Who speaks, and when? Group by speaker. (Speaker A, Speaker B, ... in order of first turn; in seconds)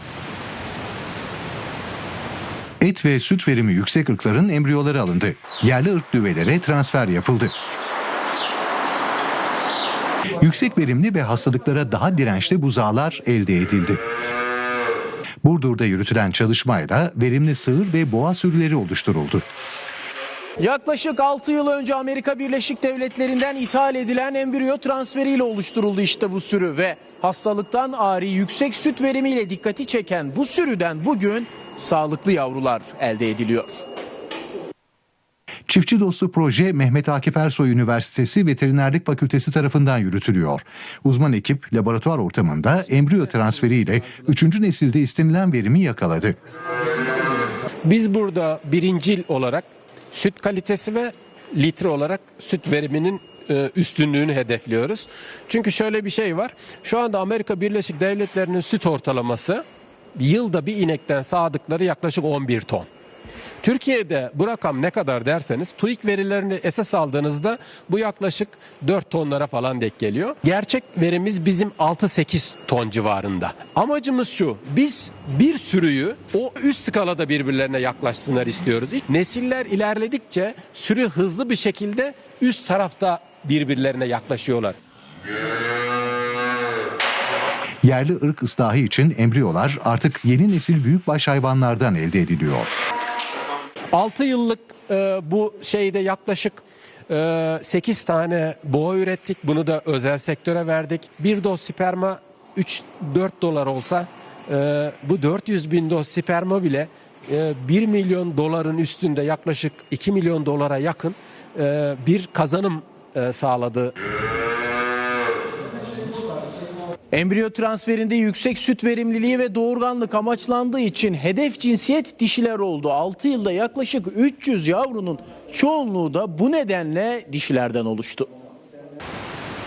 Speaker A: 2.8-7.5, 10.4-14.0, 15.4-19.4, 35.7-46.4, 87.8-92.7
Speaker B: 20.6-33.7, 117.1-128.3
Speaker C: 47.8-59.6, 60.1-62.9, 63.6-84.8, 93.9-113.9